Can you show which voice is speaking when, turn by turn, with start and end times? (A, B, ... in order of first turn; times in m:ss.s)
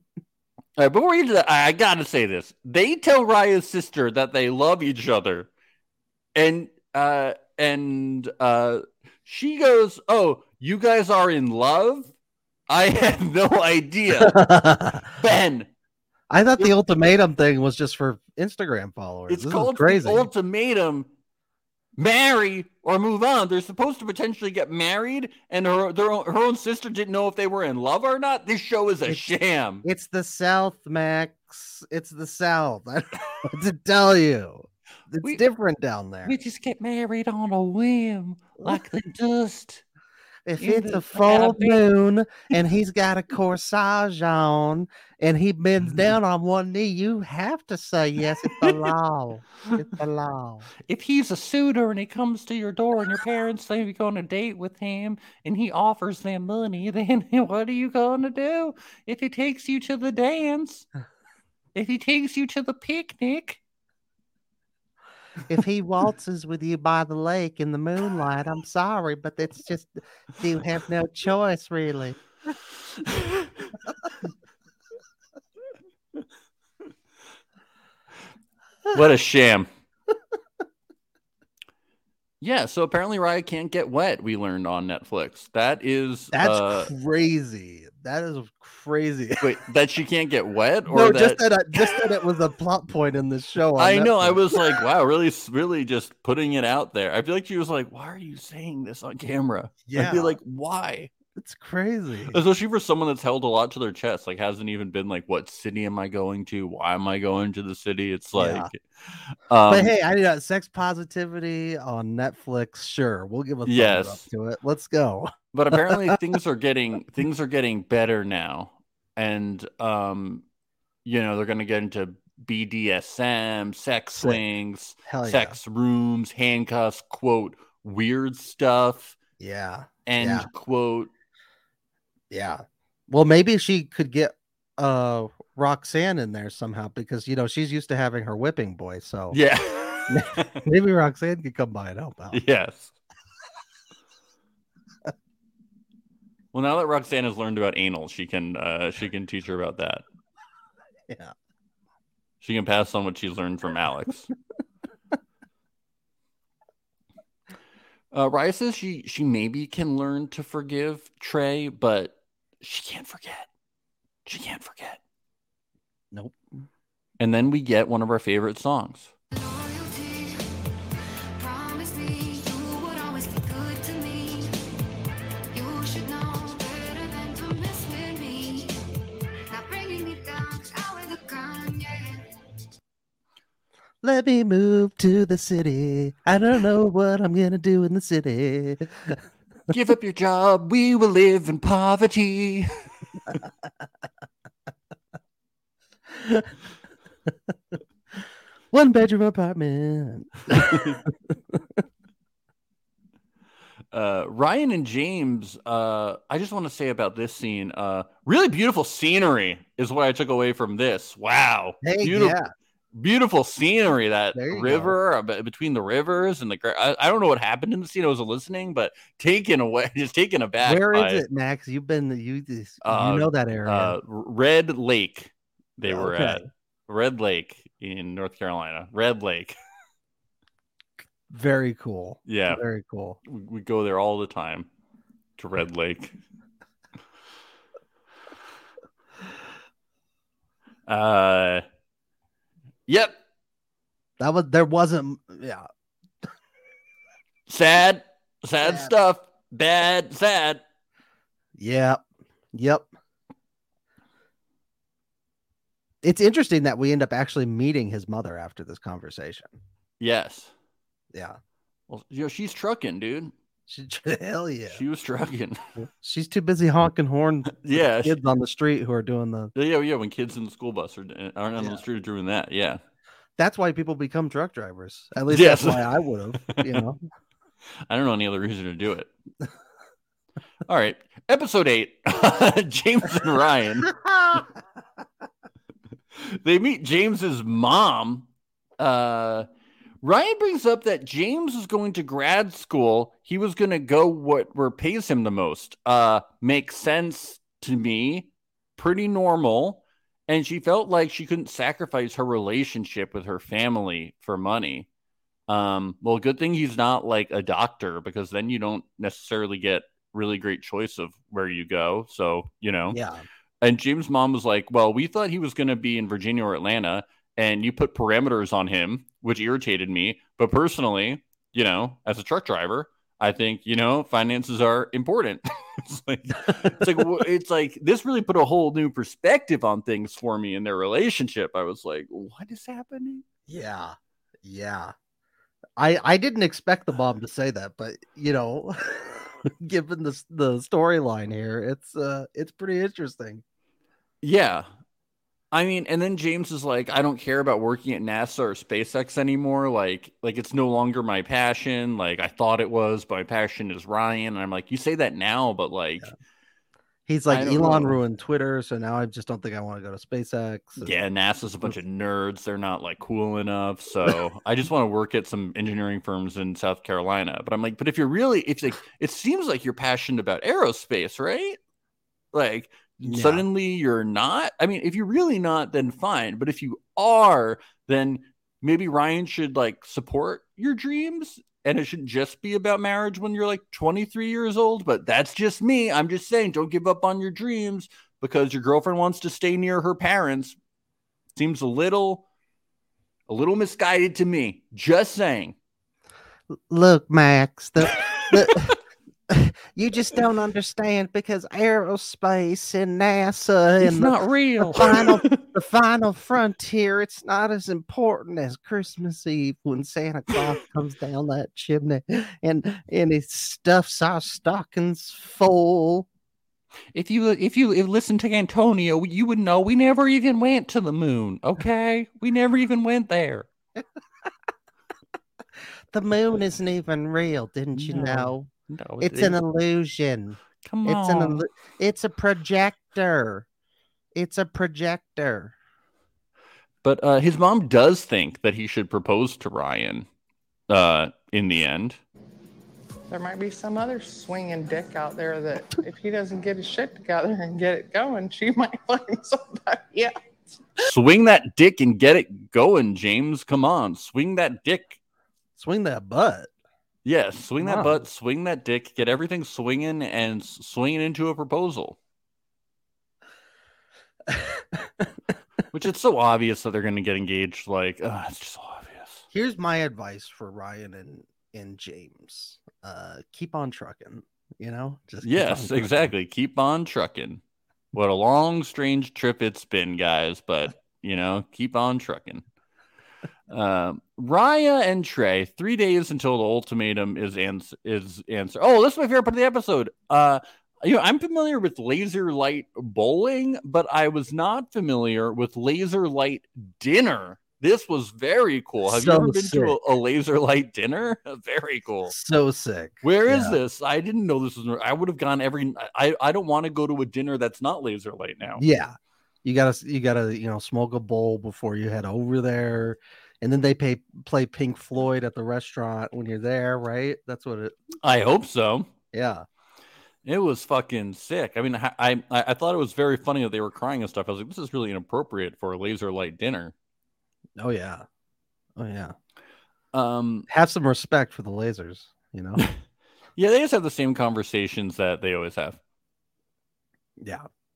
0:00.8-0:05.5 A
0:06.3-0:12.1 A
0:12.7-0:14.4 A
0:14.2-0:15.0 B
0:15.1-0:15.7 A
0:16.3-0:20.3 B
0:19.3-0:21.1 A
0:22.0-0:29.8 A
0:29.8-0:36.3 B
0:36.2-0:39.8 A
0:40.4-0:50.7 B
0:40.6-0:41.9 A
0:50.9-1:00.8 A
1:01.7-1:03.6 A
1:05.5-1:12.2 B
1:18.9-1:19.7 A
1:22.4-1:26.9 A
1:26.3-1:29.6 B
1:29.4-1:31.9 A
1:30.9-1:34.8 B
1:33.8-1:41.1 A
1:39.9-1:40.4 B
1:41.4-1:42.4 B
1:42.3-1:49.9 A
1:48.3-1:48.7 B
1:49.7-1:56.1 B
1:53.6-1:54.2 A
1:55.5-2:00.4 A
2:01.0-2:09.2 A
2:05.0-2:05.6 B
2:09.4-2:10.5 B
2:10.0-2:11.1 A
2:12.3-2:19.4 B
2:19.3-2:20.5 A
2:20.1-2:22.4 B
2:22.3-2:22.9 A
2:26.5-2:30.0 A
2:32.4-2:34.3 A
2:38.1-2:43.5 A
2:44.2-2:45.0 A
2:46.1-2:46.4 B
2:47.2-2:49.1 A
2:49.3-2:50.4 C
2:51.4-2:54.5 C
2:55.5-2:58.7 C
2:59.5-3:02.2 C
3:04.0-3:09.2 B
3:09.7-3:12.7 A
3:16.1-3:16.5 B
3:18.7-3:21.8 B
3:20.6-3:21.0 A
3:23.9-3:32.4 A
3:31.8-3:32.5 B
3:32.9-3:41.2 A
3:34.3-3:34.9 B
3:40.6-3:43.9 B
3:42.8-3:49.6 A
3:45.9-3:46.4 B
3:51.3-3:53.2 B
3:52.2-3:52.6 A
3:53.2-3:54.7 A
3:55.4-3:56.2 A
4:00.9-4:01.6 A
4:02.9-4:03.2 A
4:04.2-4:05.6 B
4:07.5-4:10.6 A
4:08.6-4:08.9 B
4:11.6-4:12.9 B
4:16.0-4:19.5 B
4:20.0-4:20.5 A
4:21.9-4:23.3 A
4:23.7-4:24.8 B
4:24.7-4:25.6 A
4:26.0-4:29.5 B
4:27.5-4:28.2 A
4:29.5-4:32.8 A
4:33.4-4:37.0 B
4:35.3-4:35.9 A
4:36.5-4:36.8 A
4:37.9-4:39.1 A
4:40.6-4:43.9 A
4:43.9-4:44.5 B
4:46.1-4:48.3 A
4:48.8-4:49.5 A
4:50.0-5:04.9 A
5:05.5-5:13.0 A
5:12.9-5:13.2 B
5:13.6-5:33.2 A
5:33.5-5:34.9 B
5:35.8-5:43.4 B
5:44.2-5:44.7 A
5:45.5-5:56.1 A
5:57.1-6:00.9 B
5:57.3-5:58.0 A
6:00.8-6:11.6 A
6:12.3-6:30.6 A
6:13.1-6:13.4 B
6:31.3-6:32.2 A
6:33.3-6:35.5 A
6:36.5-6:38.8 B
6:39.3-6:44.1 B
6:43.8-6:45.4 A
6:44.6-6:56.1 B
6:56.9-7:03.5 A
7:05.9-7:08.5 B
7:07.7-7:09.4 A
7:09.0-7:13.4 B
7:10.6-7:11.4 A
7:14.1-7:15.5 B
7:16.8-7:20.0 A
7:20.7-7:22.0 A
7:24.2-7:29.9 D
7:30.8-7:35.0 A
7:35.6-7:36.5 B
7:37.0-7:42.0 A
7:37.6-7:38.0 B
7:44.3-7:45.1 B
7:45.7-7:49.2 A
7:49.3-7:55.9 B
7:55.2-7:57.4 A
7:57.9-8:02.4 A
8:03.5-8:22.1 A
8:18.9-8:19.8 B
8:22.1-8:23.6 B
8:23.0-8:28.6 A
8:28.6-8:37.8 B
8:38.0-8:38.9 A
8:39.1-8:39.4 B
8:40.2-8:46.7 A
8:47.6-8:48.0 B
8:48.8-8:49.1 B
8:49.9-8:50.5 A
8:50.5-8:52.6 B
8:53.4-8:55.8 A
8:57.2-8:57.4 B